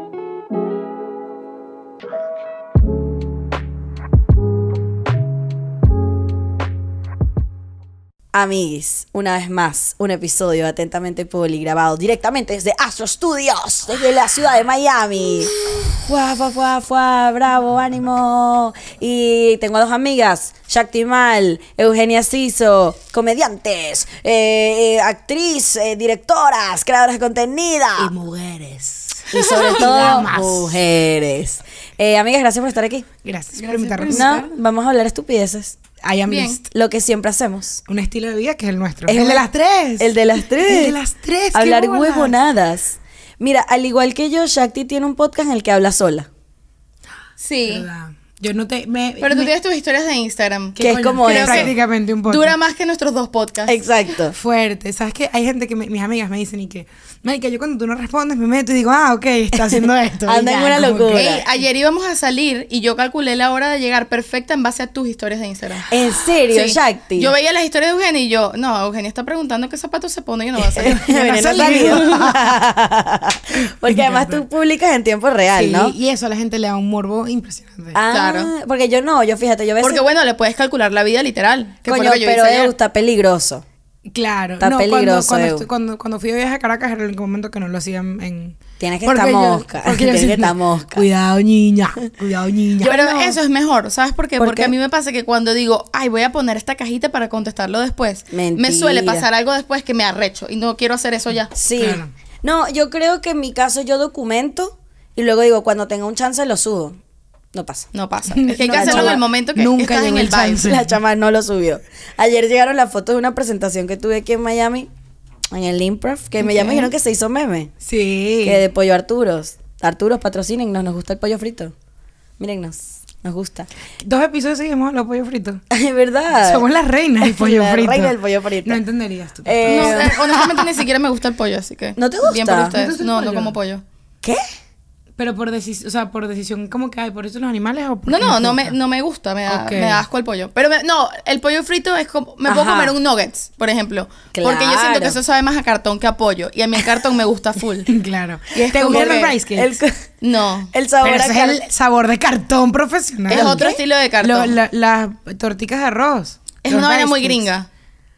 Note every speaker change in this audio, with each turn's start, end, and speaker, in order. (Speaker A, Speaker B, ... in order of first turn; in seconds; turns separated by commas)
Speaker A: 8.3-28.1, Speaker B: 28.0-30.8, Speaker A: 29.3-33.1, Speaker B: 33.2-34.3, Speaker C: 33.6-34.5, Speaker A: 34.1-35.8, Speaker B: 36.0-36.7, Speaker C: 36.3-36.6, Speaker A: 36.7-37.8, Speaker B: 37.9-42.4, Speaker A: 39.1-39.5, Speaker A: 40.0-41.0, Speaker A: 41.5-46.3, Speaker C: 47.4-47.9, Speaker B: 47.6-49.5, Speaker C: 49.2-51.8, Speaker B: 50.8-52.6, Speaker A: 50.8-51.7, Speaker C: 52.3-53.8, Speaker A: 53.7-54.4, Speaker B: 54.4-61.3, Speaker A: 60.2-61.5, Speaker C: 61.1-65.9, Speaker A: 65.9-67.3, Speaker C: 66.5-71.0, Speaker B: 70.8-72.6, Speaker A: 70.8-76.0, Speaker B: 73.8-74.4, Speaker B: 75.5-78.0, Speaker A: 77.9-80.0, Speaker C: 78.1-78.5, Speaker C: 79.8-82.7, Speaker A: 81.9-83.6, Speaker B: 84.1-93.0, Speaker A: 84.6-85.7, Speaker A: 88.8-91.1, Speaker A: 92.8-93.4, Speaker C: 92.8-101.5, Speaker A: 94.4-94.7, Speaker A: 98.3-99.2, Speaker A: 101.5-107.0, Speaker B: 101.8-102.1, Speaker A: 107.5-107.9, Speaker C: 107.9-110.7, Speaker B: 108.3-111.0, Speaker A: 108.7-109.2, Speaker A: 110.6-114.9, Speaker A: 115.5-117.7, Speaker B: 117.8-118.6, Speaker A: 118.4-121.7, Speaker A: 122.4-123.7, Speaker B: 124.0-125.6, Speaker A: 125.7-126.7, Speaker B: 126.4-130.6, Speaker A: 127.2-128.8, Speaker A: 129.4-130.2, Speaker C: 129.7-133.8, Speaker A: 132.0-132.7, Speaker B: 132.7-133.6, Speaker B: 135.2-138.8, Speaker C: 138.1-147.9, Speaker B: 139.5-140.0, Speaker A: 142.5-142.9, Speaker A: 144.3-145.2, Speaker B: 147.9-149.8, Speaker C: 148.5-149.3, Speaker A: 148.8-150.0, Speaker C: 150.2-150.7, Speaker A: 150.7-151.6, Speaker B: 151.0-153.7, Speaker C: 153.3-154.6, Speaker A: 153.3-153.8, Speaker B: 154.2-157.5, Speaker C: 156.6-157.7